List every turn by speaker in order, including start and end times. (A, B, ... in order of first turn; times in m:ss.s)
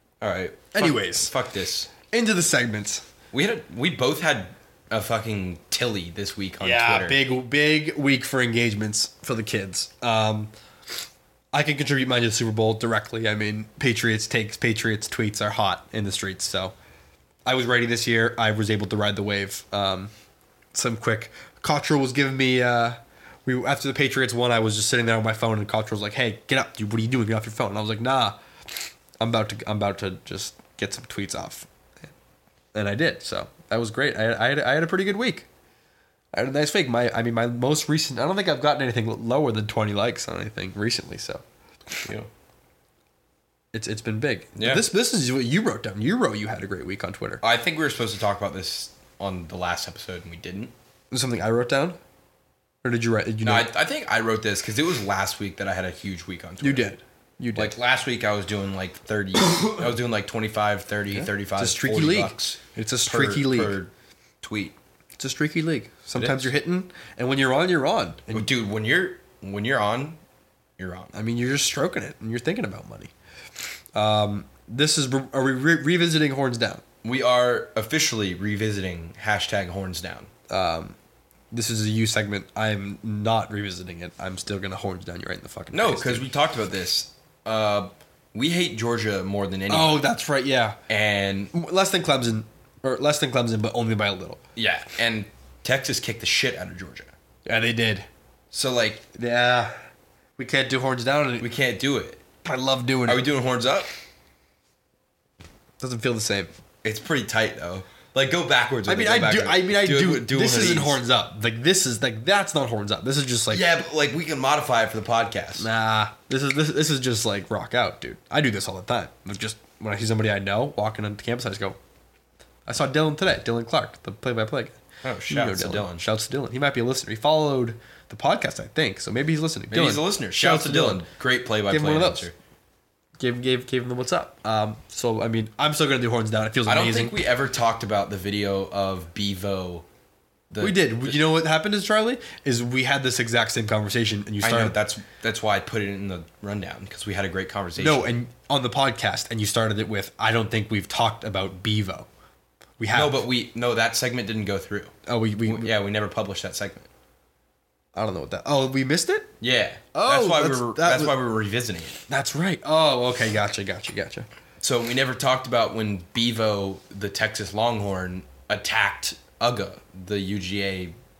0:00.2-0:01.9 A
0:00.7-0:01.3 B
0:02.1-0:03.0 B
0:03.3-0:07.2 A
0:06.6-0:10.5 B
0:11.5-0:16.7 B
0:17.4-0:20.1 B
0:20.7-0:28.4 B
0:29.2-0:31.7 B
0:32.7-0:35.5 B
0:36.3-0:41.4 B
0:42.0-0:42.3 A
0:43.7-0:47.4 B
0:44.6-0:44.8 A
0:47.4-0:50.7 A
0:51.1-0:52.0 B
0:52.8-0:53.7 B
0:53.4-0:56.9 A
0:56.6-0:57.7 B
0:57.6-1:03.9 A
1:01.1-1:03.8 B
1:04.4-1:04.8 A
1:05.2-1:08.5 B
1:06.2-1:06.5 A
1:08.3-1:10.2 A
1:10.8-1:11.1 A
1:11.1-1:13.1 B
1:14.0-1:16.8 B
1:17.0-1:20.3 A
1:20.5-1:21.0 B
1:21.5-1:26.3 B
1:25.7-1:30.0 A
1:29.7-1:30.8 B
1:30.9-1:31.5 A
1:31.5-1:34.4 B
1:34.6-1:37.1 A
1:37.5-1:38.1 B
1:38.5-1:39.1 A
1:39.2-1:39.8 B
1:40.4-1:41.5 B
1:41.4-1:42.2 A
1:42.4-1:43.3 B
1:43.1-1:43.9 A
1:45.8-1:46.5 B
1:46.8-1:51.0 A
1:48.9-1:53.7 B
1:53.5-1:55.7 A
1:55.6-2:01.8 B
2:02.7-2:04.8 B
2:05.0-2:06.0 A
2:05.3-2:11.0 B
2:09.7-2:12.3 A
2:11.7-2:12.3 B
2:13.2-2:17.2 B
2:16.7-2:19.9 A
2:20.5-2:21.2 A
2:20.6-2:24.8 B
2:24.4-2:28.1 A
2:27.8-2:32.1 B
2:32.8-2:33.2 B
2:32.9-2:36.9 A
2:35.1-2:35.7 B
2:38.0-2:39.3 B
2:39.4-2:42.0 A
2:39.9-2:41.2 B
2:42.1-2:44.3 B
2:44.6-2:51.0 A